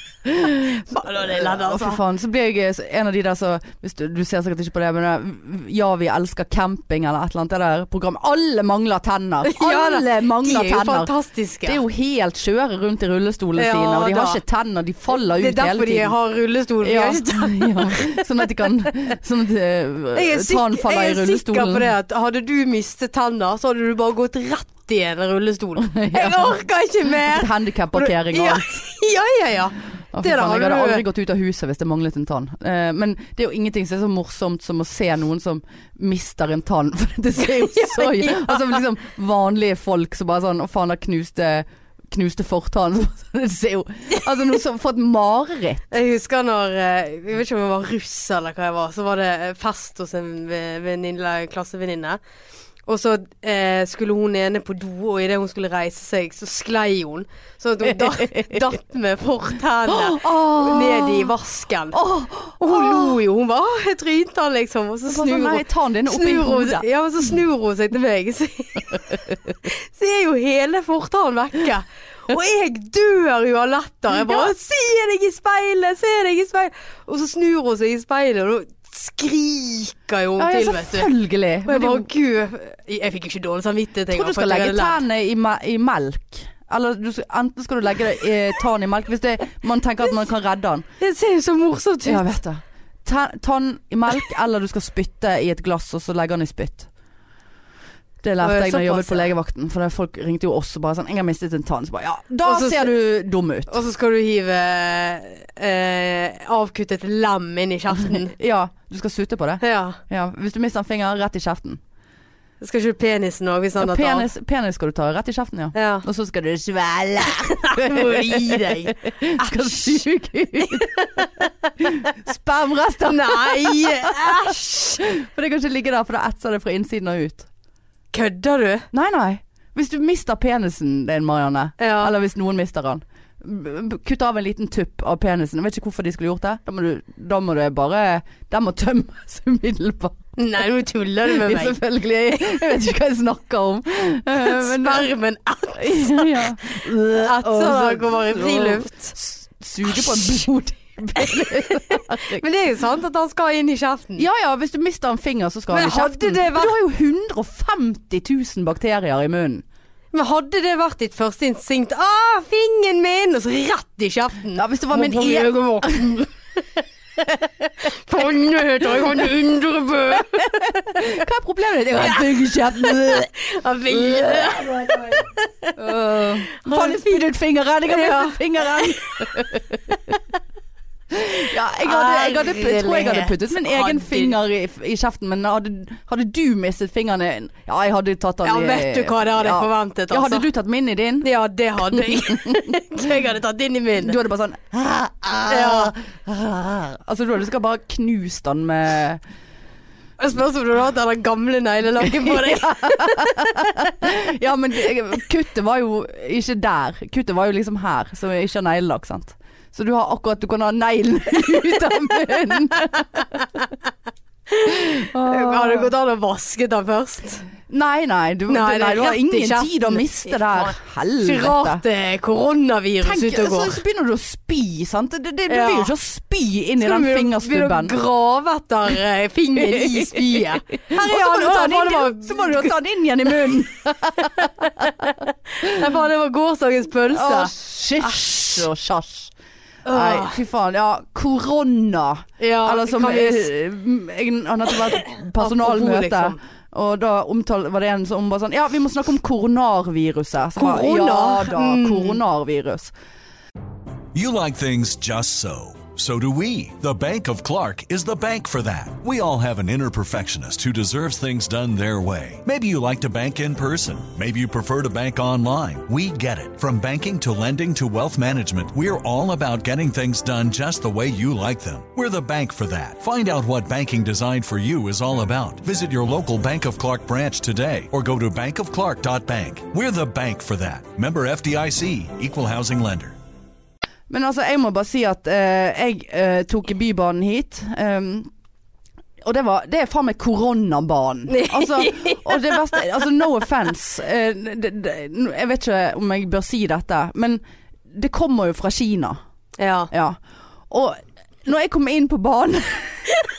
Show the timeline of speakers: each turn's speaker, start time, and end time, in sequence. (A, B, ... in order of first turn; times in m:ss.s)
0:00.2-0:11.1 A
0:00.9-0:02.0 B
0:09.4-0:11.8 B
0:11.6-0:16.1 A
0:13.6-0:14.4 B
0:15.1-0:18.2 B
0:16.8-0:21.9 A
0:20.1-0:31.0 B
0:25.8-0:26.6 A
0:27.2-0:28.8 A
0:30.1-0:45.9 A
0:37.4-0:38.8 B
0:45.9-0:52.2 B
0:52.9-1:02.0 B
0:57.8-0:58.6 A
0:59.9-1:01.3 A
1:01.9-1:03.2 A
1:02.6-1:21.1 B
1:05.1-1:06.8 A
1:14.1-1:14.5 A
1:20.4-1:22.1 A
1:21.6-1:25.0 B
1:24.1-1:30.9 A
1:31.0-1:32.3 B
1:32.0-1:36.9 A
1:38.2-1:43.7 A
1:38.4-1:39.3 B
1:42.4-1:42.9 B
1:43.7-1:48.3 B
1:48.0-1:51.8 A
1:49.6-1:50.0 B
1:52.6-1:54.3 B
1:53.8-2:01.3 A
1:55.7-1:56.0 B
1:57.3-2:00.0 B
2:00.7-2:01.3 B
2:01.8-2:07.5 A
2:03.1-2:05.0 B
2:08.1-2:08.9 B
2:08.9-2:20.2 A
2:11.8-2:12.1 B
2:20.4-2:21.8 B
2:21.2-2:25.1 A
2:24.4-2:29.1 B
2:25.8-2:32.4 A
2:31.2-2:34.2 B
2:34.2-2:39.6 A
2:35.7-2:36.8 B
2:40.1-2:46.3 B
2:44.5-2:46.2 A
2:47.7-2:51.1 B
2:48.1-2:49.2 A
2:50.1-2:53.3 A
2:52.0-2:55.9 B
2:53.9-2:55.2 A
2:55.8-2:59.9 A
2:56.5-2:57.2 B
2:57.9-2:59.5 B
3:01.1-3:11.3 A
3:01.8-3:04.4 B
3:08.4-3:10.5 B
3:11.2-3:14.2 B
3:11.9-3:12.7 A
3:14.0-3:19.2 A
3:15.5-3:15.9 B
3:20.2-3:24.0 B
3:22.0-3:33.6 A
3:34.5-3:37.4 B
3:34.7-3:35.9 A
3:37.7-3:41.8 A
3:38.5-3:43.8 B
3:43.0-3:48.0 A
3:45.5-3:45.9 B
3:46.8-3:52.8 B
3:49.6-3:54.9 A
3:54.2-3:58.6 B
3:57.1-3:59.3 A
3:59.8-4:00.4 B
3:59.9-4:12.9 A
4:02.4-4:03.5 B
4:05.4-4:06.4 B
4:10.6-4:12.2 B
4:14.1-4:43.2 C
4:44.1-4:48.3 A
4:49.2-4:59.2 A
4:51.3-4:52.8 B
4:59.6-4:59.9 B
4:59.9-5:00.2 A
5:00.7-5:03.1 A